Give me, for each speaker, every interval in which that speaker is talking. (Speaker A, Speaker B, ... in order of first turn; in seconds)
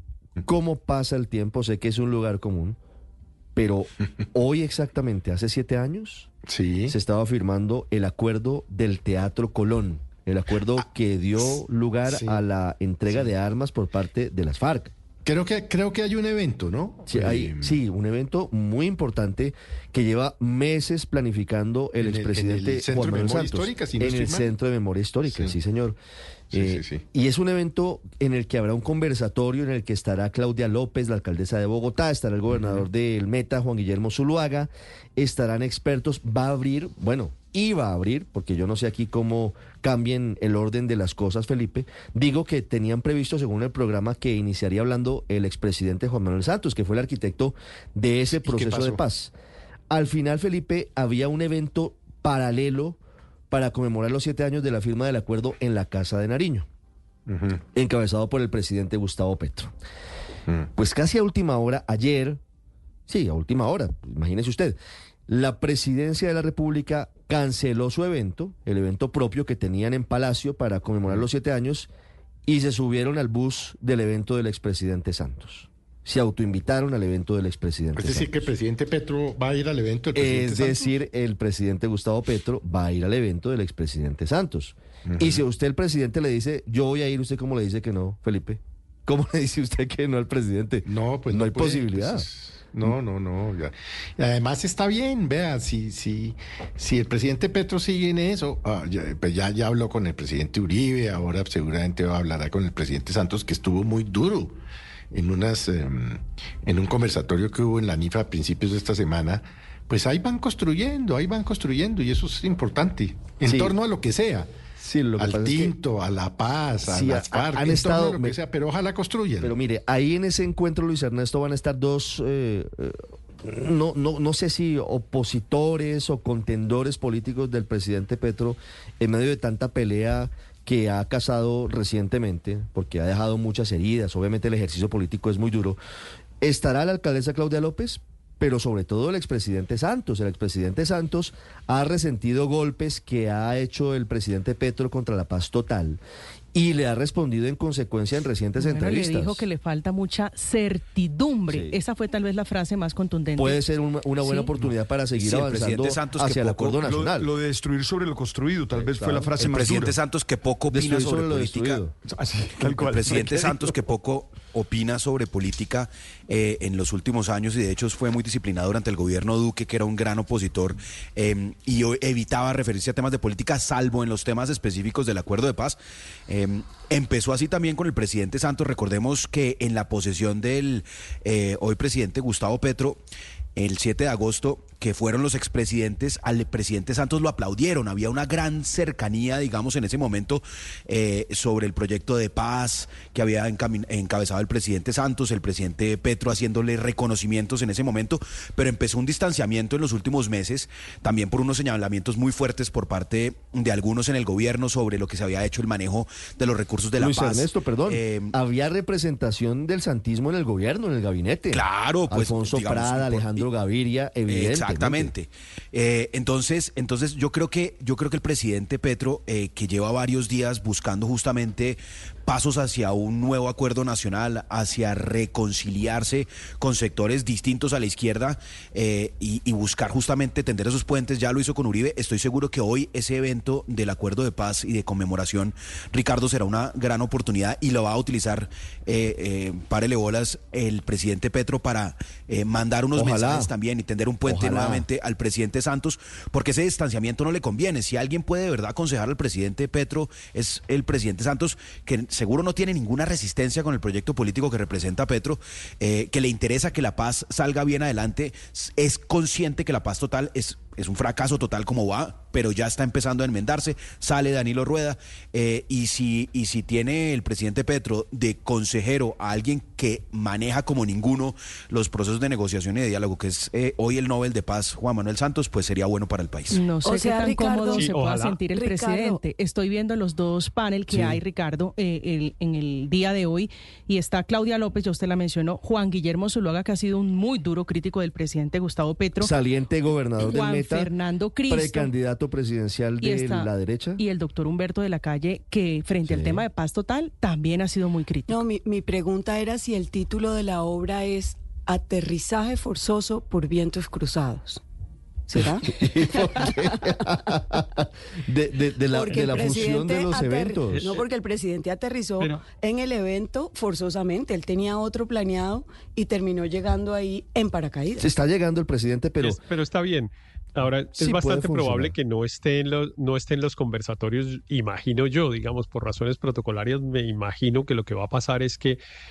Speaker A: 0.4-2.8, 3.5-6.3, 6.9-14.9, 17.1-26.0, 26.5-49.3, 49.9-53.0, 53.5-56.7, 57.7-59.7, 60.8-62.4, 63.1-64.8, 65.3-71.9, 72.5-78.5, 80.1-92.2, 113.4-113.7, 114.8-115.7, 116.8-118.4, 119.4-135.8, 136.4-146.0, 146.5-149.5, 151.5-151.8, 153.3-157.4, 158.7-159.6, 160.7-161.9, 207.0-215.1, 242.9-243.5, 244.2-244.9, 280.9-281.2, 289.2-290.9, 291.4-294.0, 296.0-296.5, 305.3-310.9, 318.0-319.4, 320.9-321.9
Speaker B: 6.5-6.9, 12.1-12.4, 15.2-17.8, 22.0-24.5, 25.3-25.6, 26.5-27.0, 32.5-32.8, 48.3-49.0, 57.3-57.6, 78.0-80.9, 85.1-85.4, 90.8-104.6, 105.1-114.5, 115.2-119.5
Speaker C: 148.6-154.5, 276.5-289.3, 290.1-291.9, 293.0-298.4
Speaker D: 155.2-156.8, 159.4-161.8, 162.6-183.0, 183.6-208.3, 211.5-213.4, 214.2-276.6
Speaker E: 156.8-160.0, 162.1-163.7
Speaker F: 276.8-277.9, 278.5-279.2, 298.3-304.6, 305.3-307.1, 308.9-318.1
Speaker G: 277.7-278.4, 310.7-311.0, 319.2-328.8